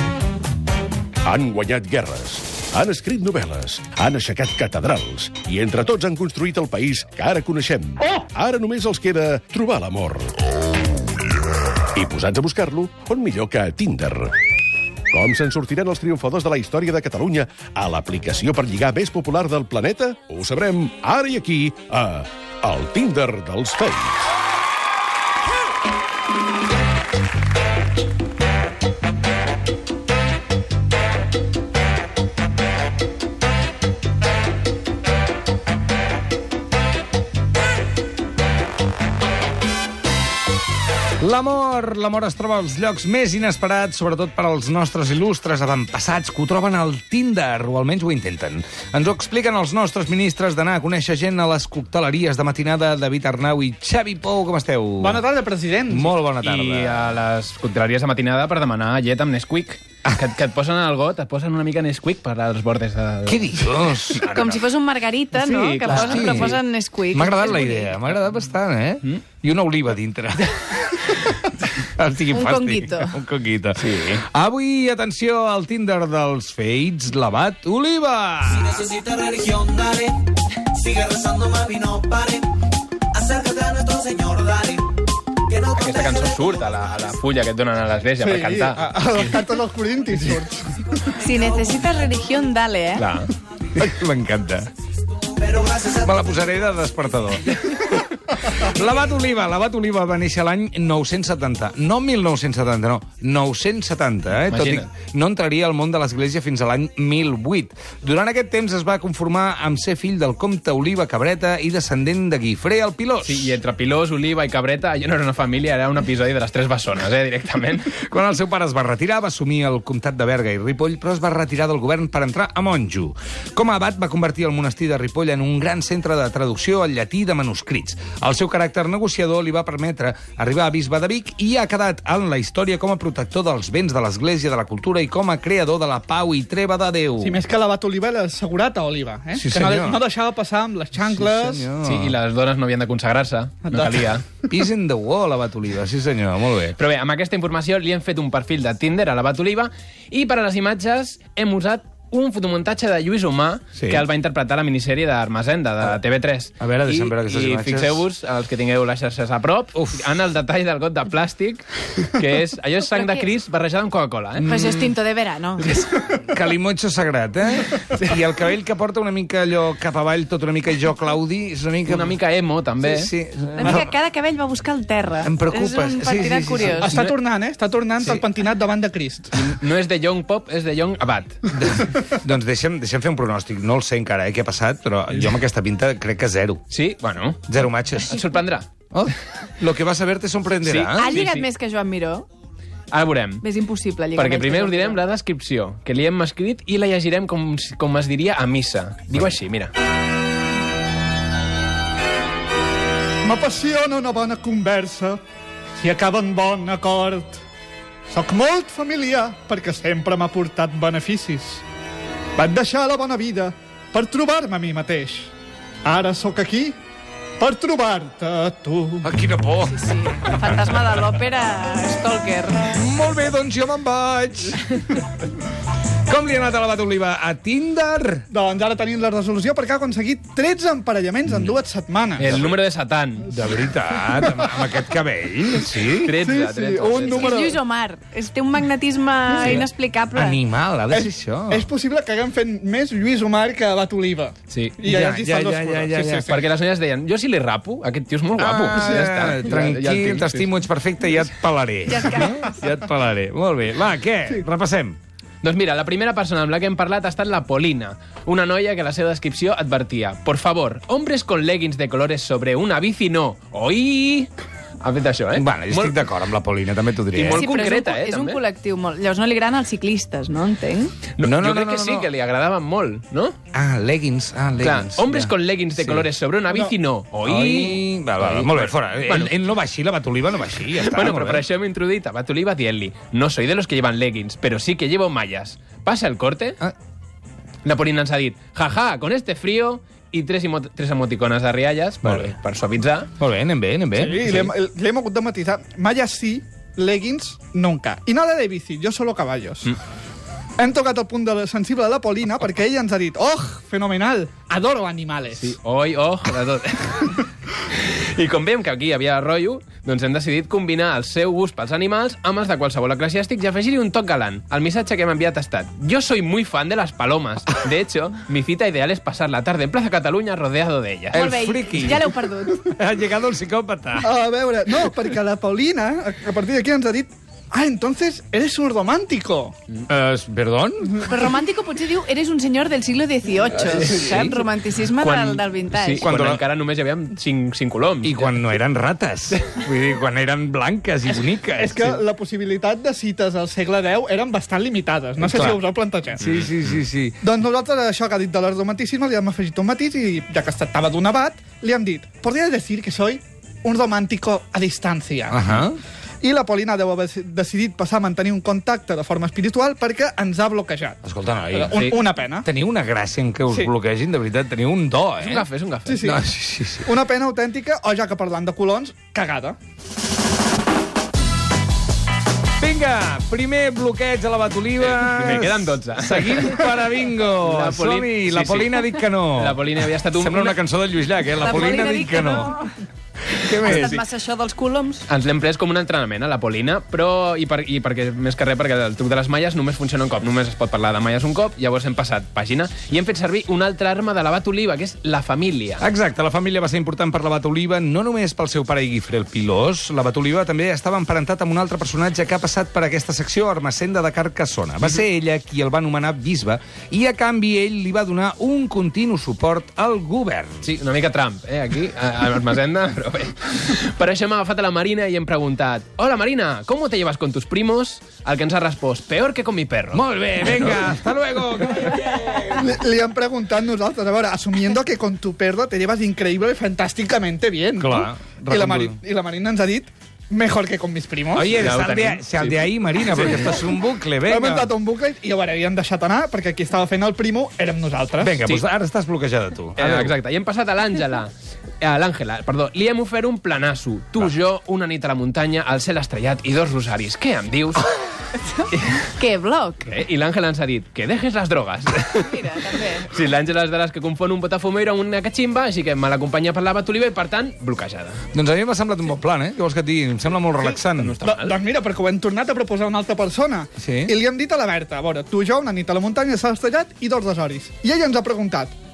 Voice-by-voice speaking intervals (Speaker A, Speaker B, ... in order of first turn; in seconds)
Speaker A: 1.2-10.6, 11.9-14.3, 15.1-24.2
Speaker B: 41.2-55.2, 55.9-57.2, 63.3-64.5, 65.9-79.0, 93.8-94.7, 95.7-113.6, 118.0-137.4, 139.3-140.0, 141.0-142.2, 144.5-146.8, 153.8-154.1, 156.6-158.1, 159.8-160.1, 165.9-172.2, 172.8-173.9, 175.2-177.0, 181.5-186.6, 187.5-188.2, 188.9-191.2, 219.0-220.0, 222.6-224.9, 226.1-228.3, 233.3-236.2, 239.4-241.7, 244.8-246.4, 248.4-255.0, 265.3-267.5, 271.2-272.1, 273.5-276.1, 277.2-281.5, 292.0-292.4, 293.2-294.3, 321.1-324.1, 329.9-331.1, 333.8-334.4, 336.0-336.4, 338.0-342.0, 345.2-345.6, 346.2-347.2, 355.3-355.8, 361.0-365.5, 366.0-366.9, 372.6-382.6, 383.3-384.0, 395.8-410.7, 419.9-422.8, 427.8-429.0, 431.3-434.7, 438.2-440.1, 458.3-461.1, 463.8-464.1
Speaker C: 55.0-56.1, 88.2-90.8, 137.2-141.7, 143.7-144.2, 176.8-179.3, 203.2-205.2, 205.8-207.4, 208.1-211.6, 212.4-215.3, 215.8-216.8, 217.4-219.1, 228.3-232.4, 234.2-234.6, 236.2-237.6, 239.3-239.6, 240.9-246.3, 248.7-249.5, 276.5-276.7, 293.9-299.7, 300.6-305.5, 324.0-329.6, 333.7-334.4, 341.6-346.2, 347.2-355.6, 356.2-361.0, 361.5-362.5, 365.9-366.2, 366.9-369.6, 422.5-431.5, 434.3-438.4, 461.2-468.7
Speaker D: 56.4-64.6, 65.4-66.6, 73.8-74.2, 85.6-89.3, 93.0-93.3, 104.5-104.9, 113.2-117.9, 141.8-144.2, 146.8-164.9, 171.9-173.1, 176.9-177.2, 179.3-181.4, 186.7-188.7, 190.6-191.5, 192.9-193.4, 194.2-199.7, 232.2-233.3, 236.0-237.3, 244.5-244.8, 246.1-250.5, 255.4-266.0, 267.1-268.4, 271.2-273.4, 274.6-279.3, 280.8-286.6, 287.6-293.1, 294.2-294.5, 305.4-321.3, 335.0-338.5, 339.3-339.6, 346.2-346.8, 361.7-362.0, 365.2-366.0, 374.8-376.6, 377.4-380.6, 383.7-384.0, 385.1-395.9, 410.6-420.9, 431.5-433.6, 439.8-441.3, 441.8-447.9, 448.7-449.0, 449.8-458.2, 460.6-461.6
Speaker E: 64.2-67.9, 72.3-73.2, 91.2-93.1, 162.9-163.3, 164.4-165.9, 173.6-176.9, 190.9-192.3, 193.4-195.0, 219.8-222.7, 237.0-240.4, 251.9-252.6, 267.4-270.9, 321.2-322.8, 331.1-336.1, 381.4-382.7, 383.6-385.1, 448.6-449.9, 452.1-453.1
Speaker F: 78.9-80.1, 80.9-82.4, 83.2-84.8